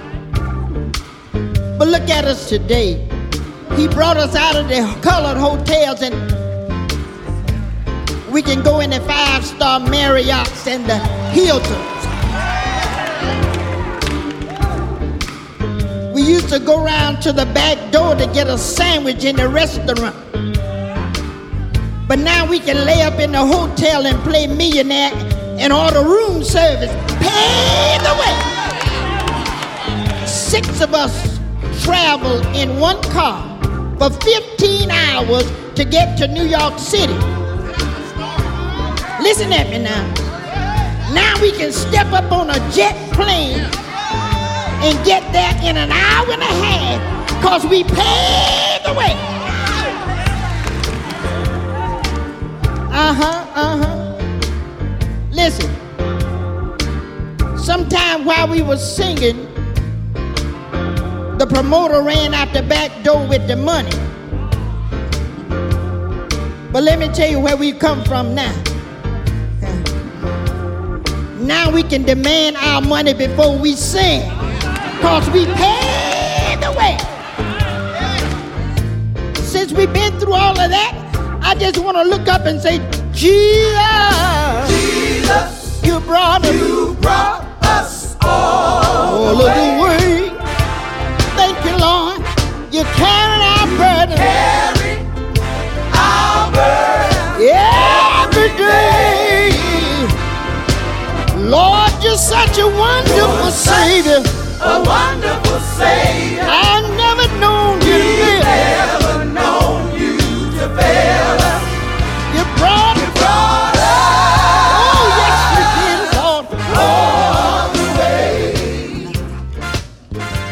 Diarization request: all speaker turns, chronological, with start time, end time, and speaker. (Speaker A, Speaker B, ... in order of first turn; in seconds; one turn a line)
Speaker A: 1.8-3.0
Speaker A: 3.7-6.3
Speaker A: 8.3-12.0
Speaker A: 16.1-20.2
Speaker A: 22.1-28.5
Speaker A: 30.2-37.3
Speaker A: 39.2-40.1
Speaker A: 41.1-43.7
Speaker A: 44.8-49.2
Speaker A: 52.9-54.1
Speaker A: 55.3-55.8
Speaker A: 57.6-59.5
Speaker A: 61.4-64.0
Speaker A: 66.7-68.7
Speaker A: 71.3-74.4
Speaker A: 75.0-77.1
Speaker A: 79.4-84.8
Speaker A: 85.8-90.4
Speaker A: 91.3-94.8
Speaker A: 97.3-100.2
Speaker A: 101.3-104.3
Speaker A: 106.2-108.9
Speaker A: 110.0-111.2
Speaker A: 112.3-119.0